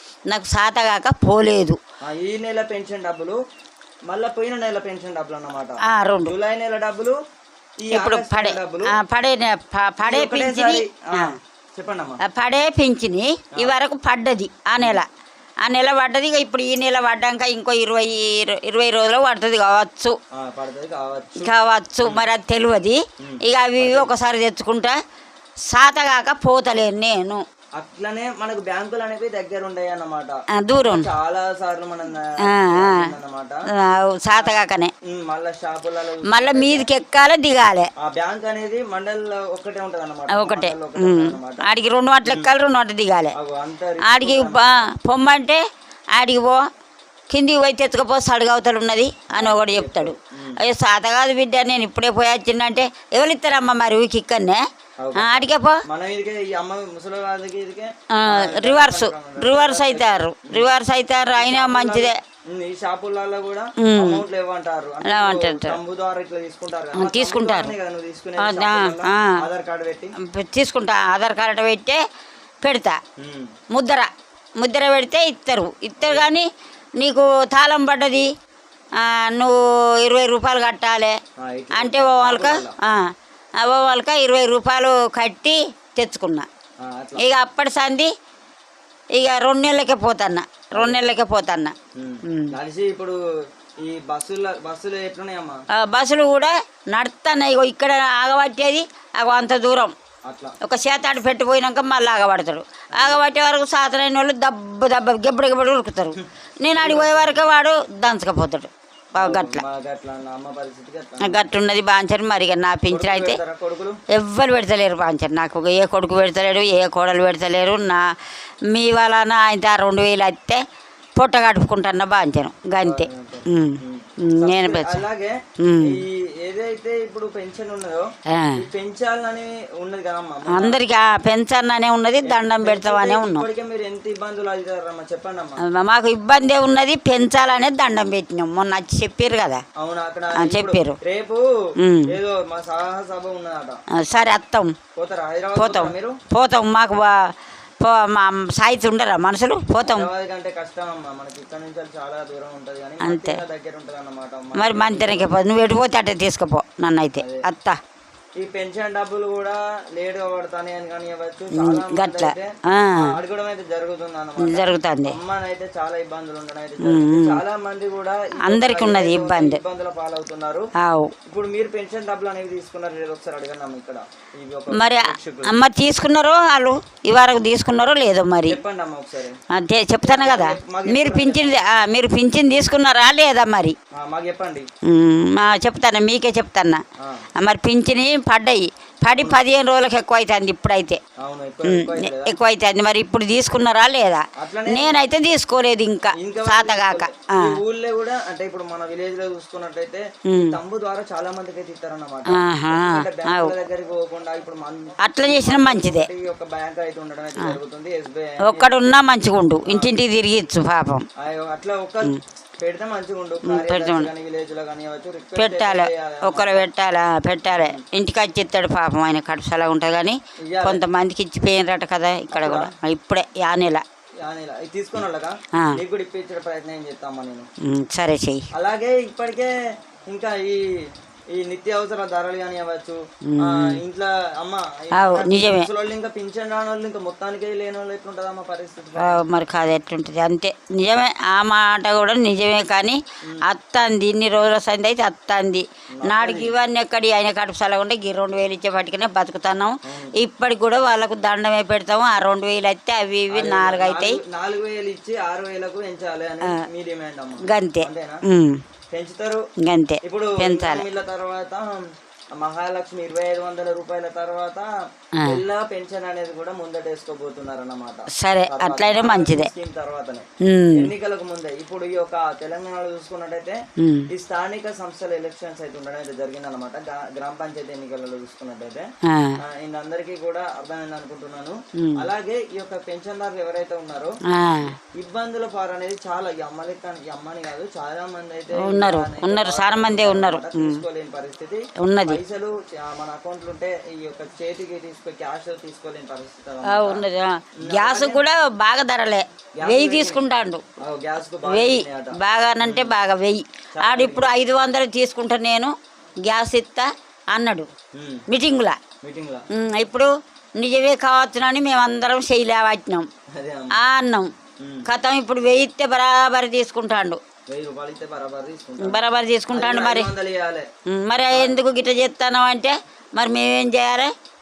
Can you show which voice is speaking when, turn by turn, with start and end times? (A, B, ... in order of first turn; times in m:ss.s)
0:00.3-0:01.8 A
0:02.0-0:03.4 B
0:04.1-0:07.2 B
0:05.8-0:06.3 A
0:07.8-0:08.9 B
0:07.9-0:11.4 A
0:10.0-0:12.2 B
0:12.2-0:15.1 A
0:14.8-0:15.0 B
0:15.6-0:20.1 A
0:20.4-0:21.5 B
0:21.4-0:24.9 A
0:23.2-0:24.1 B
0:25.7-0:27.4 A
0:27.8-0:33.6 B
0:30.6-0:31.1 A
0:32.5-0:33.0 A
0:33.8-0:34.9 A
0:34.3-0:34.6 B
0:35.1-0:36.9 B
0:36.3-0:37.9 A
0:38.0-0:41.6 B
0:40.3-0:43.3 A
0:43.4-0:44.8 B
0:44.0-0:45.6 A
0:46.2-0:46.6 A
0:47.3-0:54.6 A
0:49.3-0:50.6 B
0:55.0-1:00.7 B
0:55.2-0:55.8 A
0:58.2-1:02.1 A
1:01.4-1:10.1 B
1:03.8-1:04.2 A
1:05.0-1:05.8 A
1:07.0-1:07.7 A
1:08.4-1:09.4 A
1:10.2-1:12.0 A
1:12.6-1:13.0 A
1:13.2-1:13.5 B
1:13.7-1:14.1 A
1:14.6-1:16.5 A
1:17.0-1:18.3 A
1:19.0-1:21.2 A
1:21.4-1:22.7 B
1:21.7-1:23.0 A
1:23.6-1:26.4 A
1:26.8-1:27.2 B
1:27.2-1:28.1 A
1:29.2-1:31.7 A
1:32.0-1:33.2 B
1:32.2-1:32.5 A
1:33.8-1:35.6 B
1:35.8-1:39.9 A
1:40.3-1:40.6 B
1:40.6-1:49.6 A
1:46.7-1:47.4 B
1:49.2-1:51.5 B
1:51.2-1:53.4 A
1:52.9-1:54.0 B
1:54.2-1:58.0 A
1:58.7-2:00.6 A
2:01.2-2:05.0 A
2:02.8-2:10.8 B
2:05.6-2:06.0 A
2:08.3-2:08.6 A
2:10.5-2:13.4 A
2:12.2-2:15.6 B
2:15.7-2:19.6 A
2:19.8-2:21.4 B
2:20.4-2:21.0 A
2:21.8-2:22.1 A
2:22.0-2:23.8 B
2:24.0-2:24.7 A
2:25.0-2:26.2 B
2:25.6-2:27.1 A
2:27.8-2:30.1 A
2:29.8-2:35.4 B
2:33.0-2:33.4 A
2:34.6-2:37.8 A
2:37.1-2:37.4 B
2:38.4-2:50.6 B
2:41.6-2:43.1 A
2:44.4-2:45.1 A
2:46.8-2:47.4 A
2:48.5-2:49.6 A
2:50.8-2:51.1 A
2:51.3-2:55.6 B
2:54.7-2:58.6 A
2:58.4-2:59.4 B
2:59.5-3:03.8 A
3:00.0-3:01.6 B
3:04.0-3:04.7 B
3:04.9-3:06.8 A
3:07.4-3:11.0 A
3:09.1-3:09.4 B
3:11.2-3:12.3 B
3:11.6-3:17.5 A
3:14.4-3:15.0 B
3:16.2-3:28.9 B
3:20.3-3:20.5 A
3:22.3-3:23.5 A
3:25.0-3:26.1 A
3:28.5-3:31.0 A
3:29.7-3:30.0 B
3:31.2-3:36.6 B
3:33.4-3:34.1 A
3:35.4-3:43.8 A
3:37.5-3:37.8 B
3:40.4-3:40.8 B
3:42.3-3:42.7 B
3:44.2-3:47.5 B
3:47.6-3:48.4 A
3:48.5-3:49.5 B
3:50.1-3:50.8 B
3:51.3-3:59.2 B
3:53.3-3:53.8 A
3:54.9-3:55.7 A
3:59.0-4:14.2 A
4:06.0-4:06.5 B
4:09.9-4:10.1 B
4:13.3-4:18.2 B
4:17.4-4:18.6 A
4:18.9-4:19.4 B
4:19.6-4:20.8 A
4:20.0-4:21.8 B
4:22.4-4:24.7 B
4:25.2-4:33.6 B
4:28.2-4:29.5 A
4:30.4-4:30.9 A
4:33.8-4:34.1 A
4:34.1-4:38.8 B
4:39.1-4:39.4 A
4:39.4-4:44.1 B
4:44.3-4:44.7 A
4:45.0-4:57.0 B
4:48.6-4:50.8 A
4:51.8-4:52.2 A
4:56.6-5:00.6 A
4:57.6-4:58.2 B
4:59.6-5:00.3 B
5:00.8-5:02.9 B
5:01.4-5:05.7 A
5:03.8-5:04.3 B
5:06.2-5:07.7 A
5:07.9-5:08.2 B
5:08.3-5:08.8 A
5:09.0-5:09.4 B
5:09.5-5:13.1 A
5:13.4-5:13.7 B
5:13.7-5:14.3 A
5:14.6-5:14.8 B
5:14.9-5:17.2 A
5:17.5-5:19.0 B
5:18.8-5:20.1 A
5:19.5-5:20.7 B
5:20.9-5:24.1 A
5:21.3-5:21.6 B